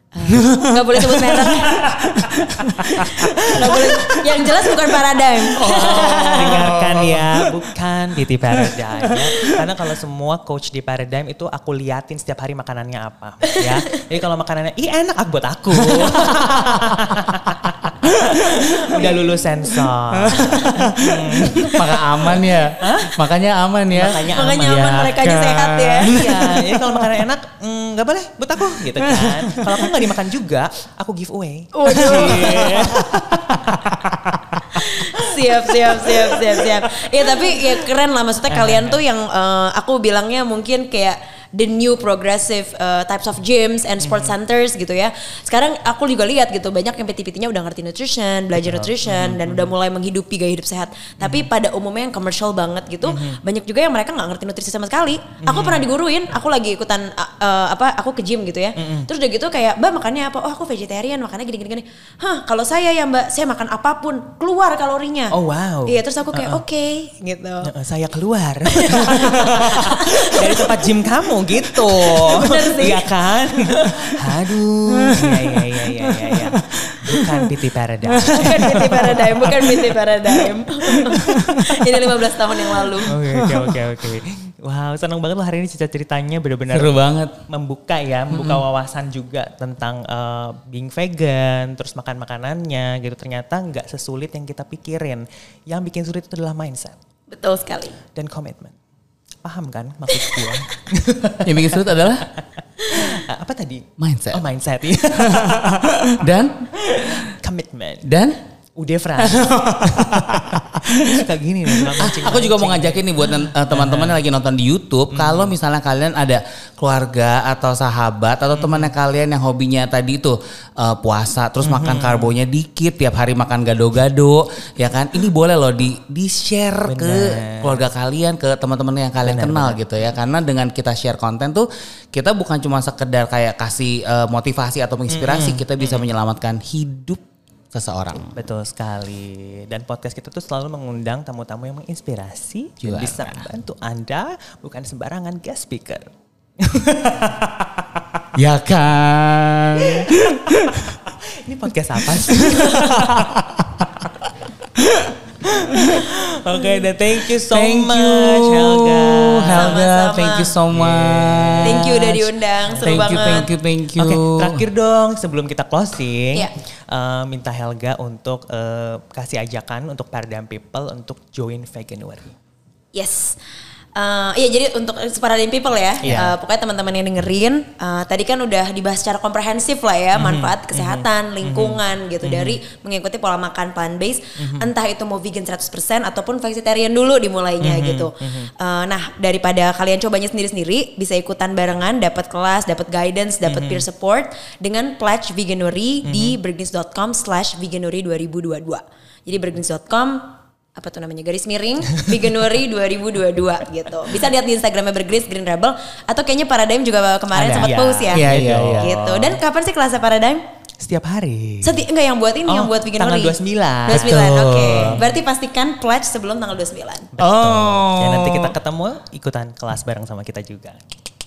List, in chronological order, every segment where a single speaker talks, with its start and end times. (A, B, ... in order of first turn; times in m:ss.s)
0:00.1-0:02.1 A
0:00.4-0:00.9 B
0:01.7-0:04.1 C
0:01.7-0:03.0 B
0:02.8-0:06.7 A
0:05.6-0:07.7 B
0:05.6-0:23.2 C
0:08.5-0:09.6 B
0:13.5-0:14.0 A
0:16.2-0:17.0 B
0:17.8-0:18.2 B
0:18.9-0:19.2 A
0:20.2-0:26.8 B
0:20.3-0:20.8 A
0:23.9-0:25.2 C
0:24.3-0:26.4 A
0:26.0-0:34.1 C
0:28.8-0:29.9 B
0:31.7-0:33.0 A
0:31.9-0:34.4 B
0:34.7-1:05.3 A
0:35.4-0:36.1 C
0:38.5-0:39.0 C
0:44.0-0:44.3 C
0:48.6-0:49.7 C
0:51.2-0:51.5 C
0:53.0-0:53.4 C
0:55.4-0:55.8 C
0:58.8-0:59.1 C
1:05.3-1:06.6 C
1:05.9-1:07.7 A
1:07.6-1:19.8 C
1:08.7-1:10.7 A
1:11.8-1:13.1 A
1:15.0-1:15.6 B
1:17.0-1:17.3 B
1:18.1-1:19.7 B
1:18.3-1:23.1 A
1:21.1-1:21.6 B
1:23.0-1:37.0 C
1:23.2-1:23.6 B
1:26.7-1:27.4 B
1:28.3-1:28.6 B
1:37.3-1:38.0 A
1:38.1-1:38.7 C
1:39.4-1:42.2 C
1:40.1-1:40.7 A
1:41.4-1:42.2 B
1:42.8-1:43.1 A
1:42.9-1:45.7 C
1:44.0-1:44.4 B
1:45.2-1:47.2 B
1:46.8-1:48.1 C
1:48.0-1:48.4 B
1:48.8-1:50.2 C
1:49.2-1:51.0 B
1:50.8-1:54.2 C
1:52.0-2:17.2 B
1:55.1-1:55.5 C
1:58.5-1:58.9 C
2:01.6-2:02.4 C
2:06.8-2:07.8 C
2:09.2-2:09.8 C
2:15.1-2:16.1 C
2:17.7-2:18.3 B
2:18.4-2:26.1 C
2:22.8-2:23.5 B
2:26.6-2:27.6 C
2:28.4-2:31.0 B
2:31.3-2:33.0 C
2:32.4-2:34.1 B
2:34.8-2:35.1 B
2:35.4-2:39.8 C
2:35.7-2:36.0 B
2:37.4-2:44.6 B
2:39.5-2:40.6 A
2:40.7-2:42.0 C
2:41.6-2:43.5 A
2:42.7-2:52.3 C
2:52.9-2:53.4 A
2:54.0-3:30.4 A
2:56.0-2:56.3 C
3:00.1-3:02.6 C
3:04.4-3:04.7 C
3:07.6-3:08.5 C
3:13.4-3:13.8 C
3:16.0-3:16.4 C
3:27.3-3:29.0 B
3:27.5-3:29.4 C
3:30.8-3:31.8 C
3:31.6-3:37.1 A
3:32.4-3:35.1 C
3:33.9-3:35.0 B
3:37.1-3:40.8 C
3:37.2-3:38.5 B